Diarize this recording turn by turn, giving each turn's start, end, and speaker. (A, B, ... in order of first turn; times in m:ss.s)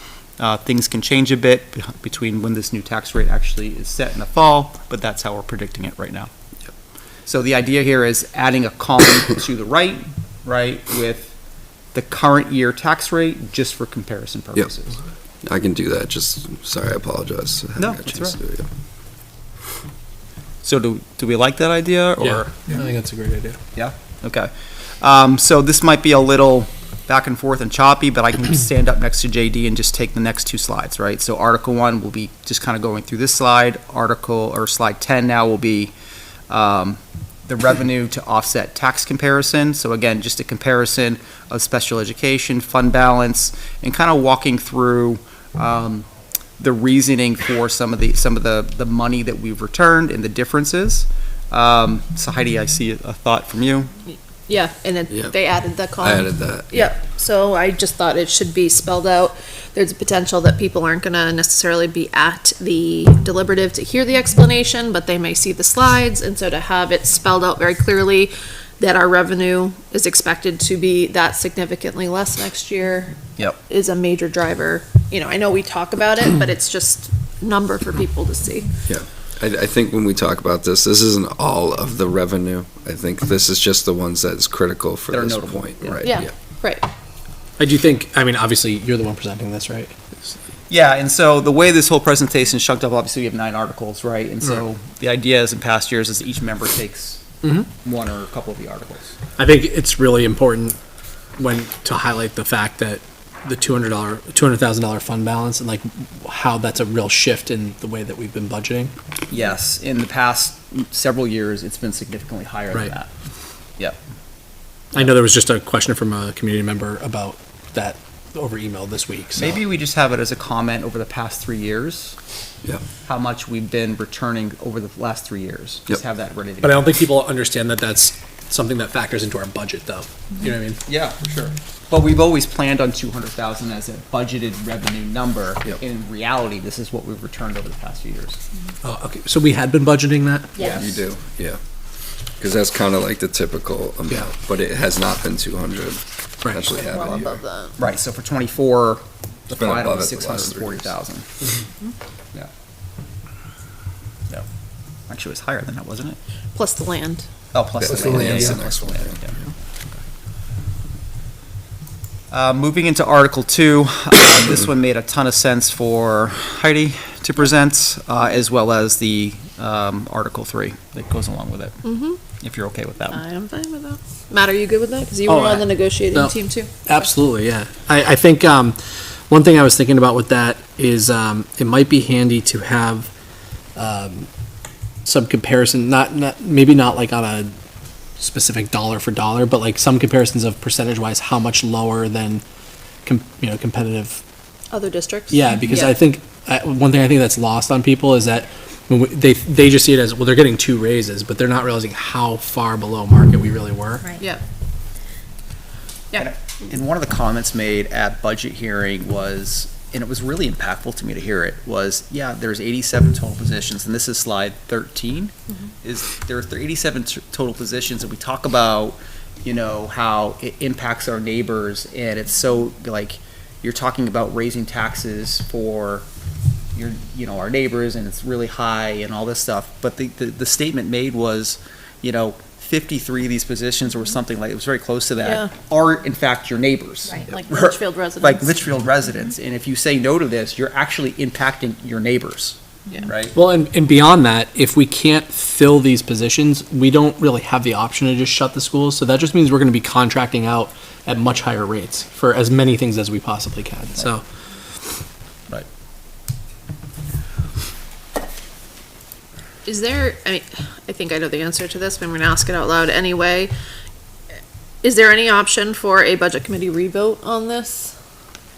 0:00.4-0:06.3 A
0:07.2-0:11.4 A
0:11.9-0:15.0 A
0:15.4-0:18.7 B
0:17.8-0:18.4 A
0:20.6-0:22.8 A
0:22.2-0:23.6 C
0:23.7-0:24.5 A
0:25.0-0:35.9 A
0:36.5-0:46.1 A
0:46.6-0:53.9 A
0:54.1-1:18.8 D
0:56.0-0:56.9 B
1:18.8-1:26.3 B
1:25.1-1:26.1 A
1:26.0-1:26.9 D
1:27.6-1:30.0 C
1:30.7-1:39.2 A
1:39.4-1:40.8 C
1:41.4-1:48.9 C
1:49.3-1:53.1 A
1:54.9-1:59.6 C
1:59.4-2:02.2 A
2:03.0-2:06.9 A
2:06.6-2:10.8 C
2:10.8-2:18.4 A
2:18.8-2:20.8 C
2:20.6-2:20.9 A
2:20.6-2:21.6 B
2:22.4-2:27.4 B
2:26.4-2:26.7 C
2:26.7-2:27.8 D
2:27.8-2:31.3 A
2:29.6-2:30.8 B
2:35.1-2:36.2 A
2:36.5-2:37.3 D
2:37.5-2:39.4 A
2:37.8-2:38.8 B
2:42.3-2:51.8 A
2:51.8-2:52.2 D
2:52.4-2:53.2 A
2:53.1-2:57.0 D
2:55.3-2:56.3 C
2:56.8-3:03.1 C
3:03.8-3:04.3 C
3:05.0-3:07.5 C
3:08.2-3:12.4 C
3:13.0-3:14.2 C
3:14.7-3:15.9 D
3:15.3-3:24.2 C
3:26.1-3:46.1 A
3:46.7-4:03.4 A
3:55.2-3:55.5 D
3:57.2-3:58.4 D
4:03.3-4:14.2 C
4:19.6-4:23.5 D
4:24.8-4:27.9 D